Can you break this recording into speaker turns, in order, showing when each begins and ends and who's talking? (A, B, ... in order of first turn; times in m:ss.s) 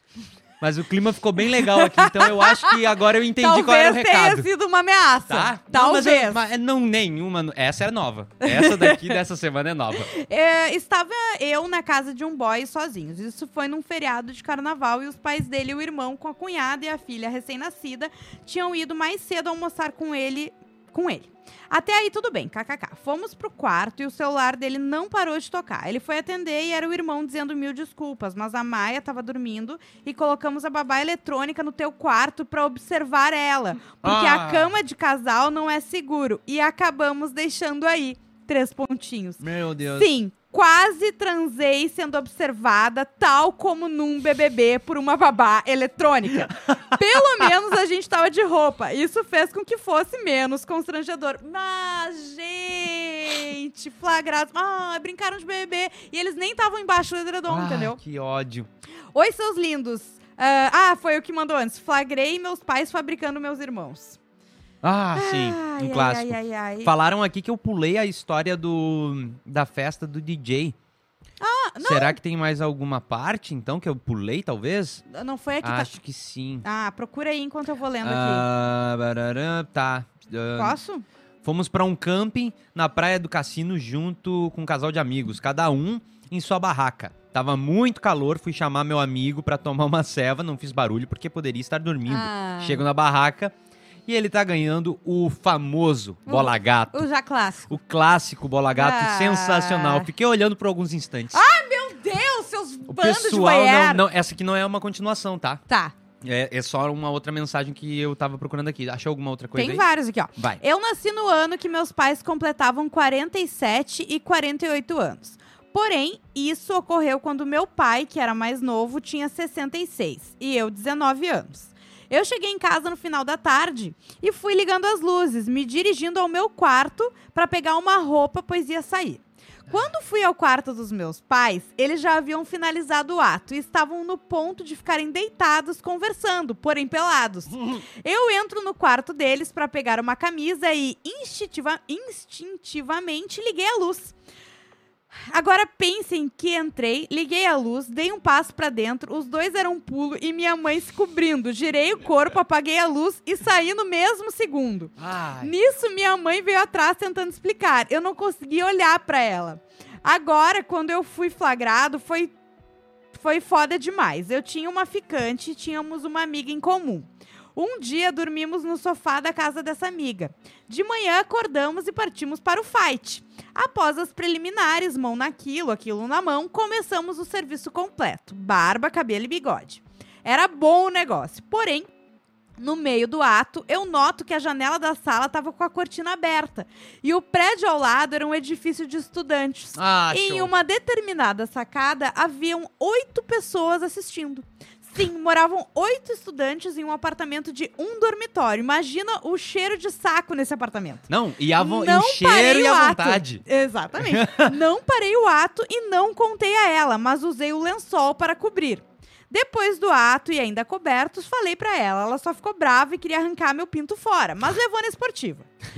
0:00.6-0:04.5 A
0:01.6-0:02.8 B
0:03.4-0:06.4 B
0:05.3-0:10.1 A
0:08.4-0:09.2 B
0:10.0-0:58.0 B
0:34.0-0:34.8 A
0:39.4-0:40.1 A
0:57.5-0:58.7 A
0:59.1-1:04.2 B
1:04.8-1:10.8 A
1:05.2-1:06.9 B
1:11.4-1:12.2 B
1:11.8-1:15.0 A
1:15.1-1:16.0 B
1:15.6-1:16.7 A
1:16.6-1:18.5 B
1:18.0-1:20.8 A
1:20.6-1:21.0 B
1:21.4-1:33.5 A
1:32.1-1:32.8 B
1:34.1-1:37.1 A
1:36.3-1:37.7 B
1:37.7-1:41.4 A
1:38.8-1:40.1 B
1:41.3-1:44.0 B
1:42.9-1:45.6 A
1:45.7-1:46.0 B
1:46.2-1:50.6 A
1:49.6-2:24.1 B
2:25.3-2:42.3 B
2:35.0-2:35.5 A
2:43.1-3:01.9 B
3:02.6-3:35.5 B
3:09.8-3:10.5 A
3:21.1-3:23.4 A
3:24.0-3:24.5 A